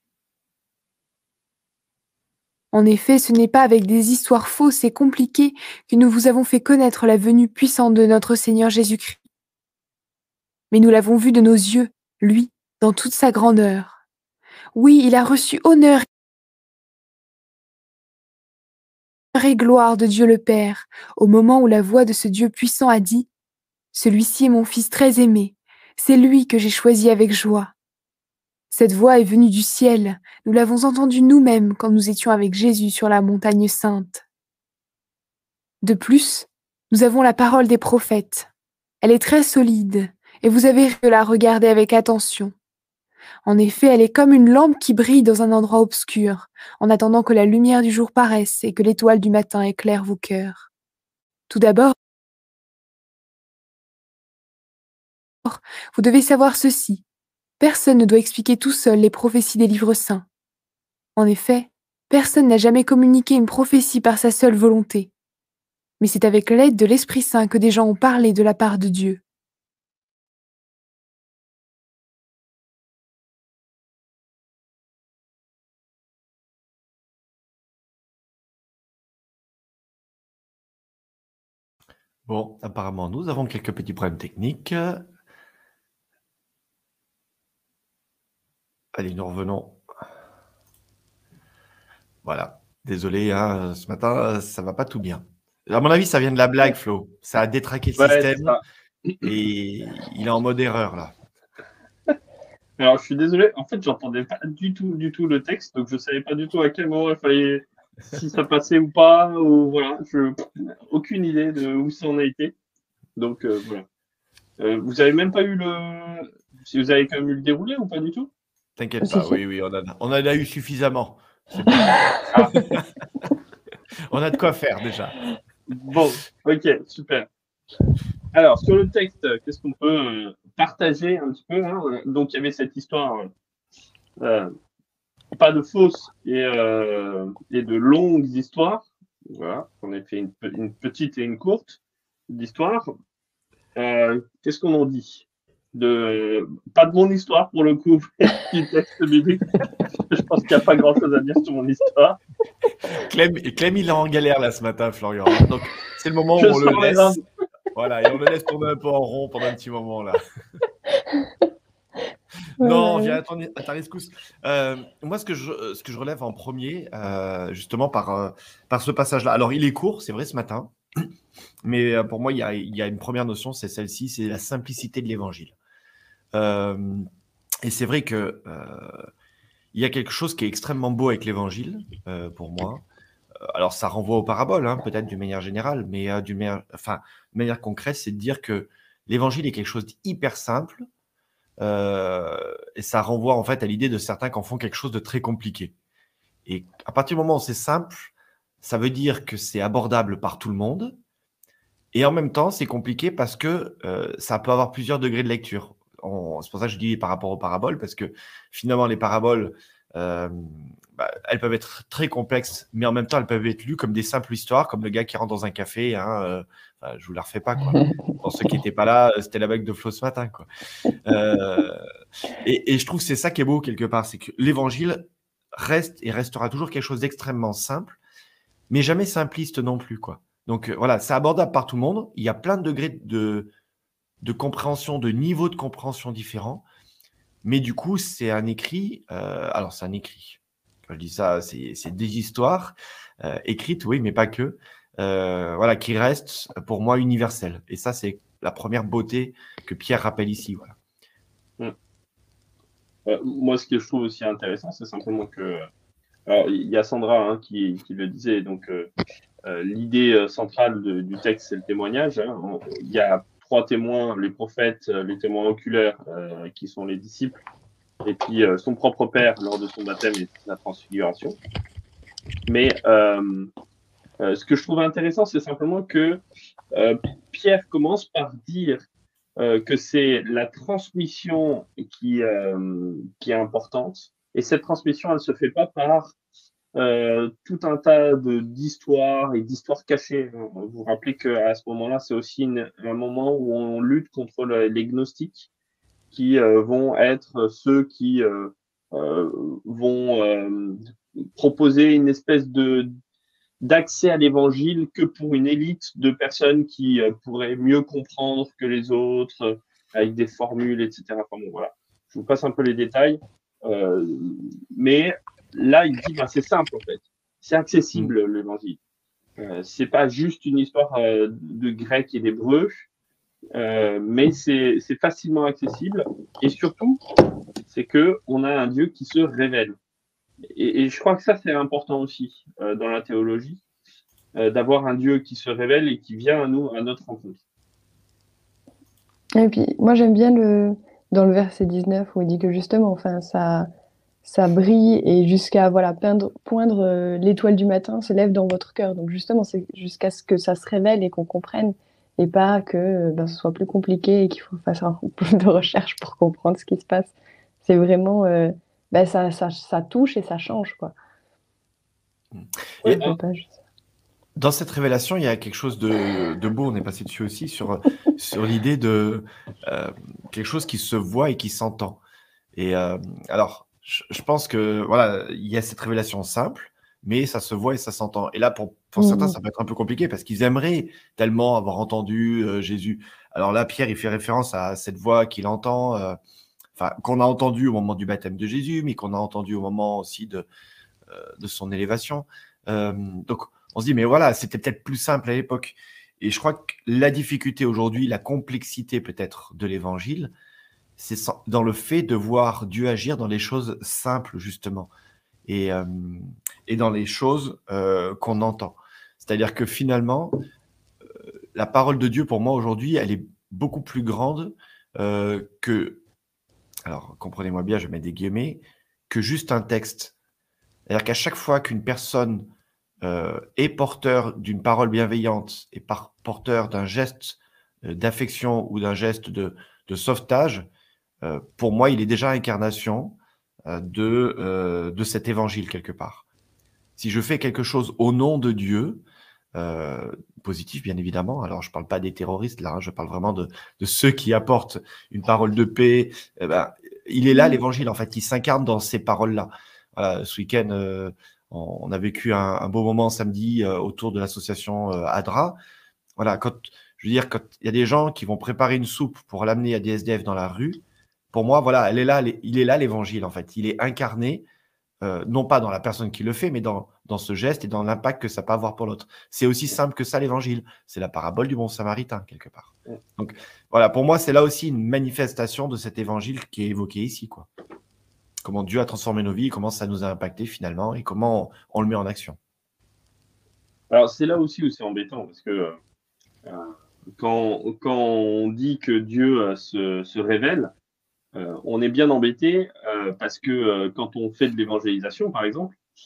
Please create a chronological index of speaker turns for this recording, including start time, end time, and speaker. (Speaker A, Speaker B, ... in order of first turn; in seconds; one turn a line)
Speaker A: 2.7-9.2
Speaker A: 10.7-13.9
Speaker A: 14.7-16.1
Speaker A: 19.3-23.3
Speaker A: 23.9-27.7
Speaker A: 28.7-34.2
Speaker A: 35.8-38.5
Speaker A: 39.0-42.5
Speaker A: 43.4-50.7
Speaker A: 51.5-51.9
Speaker A: 55.4-57.0
Speaker A: 57.6-60.2
Speaker A: 61.1-65.1
Speaker A: 66.0-69.2
Speaker B: 82.3-85.0
Speaker B: 88.9-89.8
Speaker B: 92.2-98.6
Speaker C: 98.0-99.3
Speaker B: 99.2-101.1
Speaker C: 102.8-112.5
Speaker C: 113.2-113.8
Speaker C: 114.6-118.3
Speaker B: 118.8-122.8
Speaker D: 119.0-119.3
Speaker B: 124.1-125.2
Speaker C: 125.7-127.3
Speaker C: 128.3-133.3
Speaker C: 134.2-134.5
Speaker C: 135.3-141.8
Speaker C: 142.3-142.9
Speaker C: 143.8-152.2
Speaker B: 152.9-157.2
Speaker C: 156.4-157.2
Speaker B: 157.7-160.2
Speaker D: 162.6-163.2
Speaker B: 162.6-171.1
Speaker B: 171.6-175.5
Speaker B: 176.3-177.1
Speaker B: 177.6-179.1
Speaker B: 179.7-182.8
Speaker B: 183.5-190.9
Speaker B: 191.6-195.7
Speaker B: 196.4-201.0
Speaker B: 201.9-220.5
Speaker B: 221.1-221.8
Speaker B: 222.4-228.0
Speaker B: 228.7-233.5
Speaker B: 234.2-236.6
Speaker B: 237.4-250.8
Speaker C: 253.1-255.6
Speaker C: 256.3-258.9
Speaker C: 259.4-267.4
Speaker C: 268.0-271.4
Speaker C: 272.4-273.5
Speaker C: 274.2-276.2
Speaker C: 276.7-278.8
Speaker C: 279.4-286.1
Speaker C: 286.7-295.5
Speaker C: 296.1-300.8
Speaker C: 301.4-302.9
Speaker C: 303.6-318.8
Speaker C: 319.4-322.9
Speaker C: 323.5-327.0
Speaker C: 327.7-329.8
Speaker C: 330.5-333.6
Speaker C: 334.3-337.4
Speaker D: 339.4-343.7
Speaker D: 344.2-357.1
Speaker D: 357.6-360.9
Speaker B: 362.3-363.0
Speaker C: 362.8-363.2
Speaker D: 362.9-363.6
Speaker B: 364.4-372.0
Speaker B: 372.5-386.2
Speaker D: 379.0-379.4
Speaker B: 386.8-390.5
Speaker B: 391.1-400.3
Speaker B: 401.0-404.9
Speaker B: 405.5-410.4
Speaker B: 411.5-416.0
Speaker B: 416.8-420.1
Speaker B: 420.9-422.5
Speaker B: 423.0-430.7
Speaker B: 431.2-436.2
Speaker B: 437.0-439.0
Speaker B: 439.5-455.6
Speaker B: 456.2-460.8
Speaker B: 461.3-464.4
Speaker B: 465.0-477.5
Speaker B: 478.4-482.4
Speaker C: 483.9-485.8
Speaker C: 486.4-490.7
Speaker C: 491.3-495.8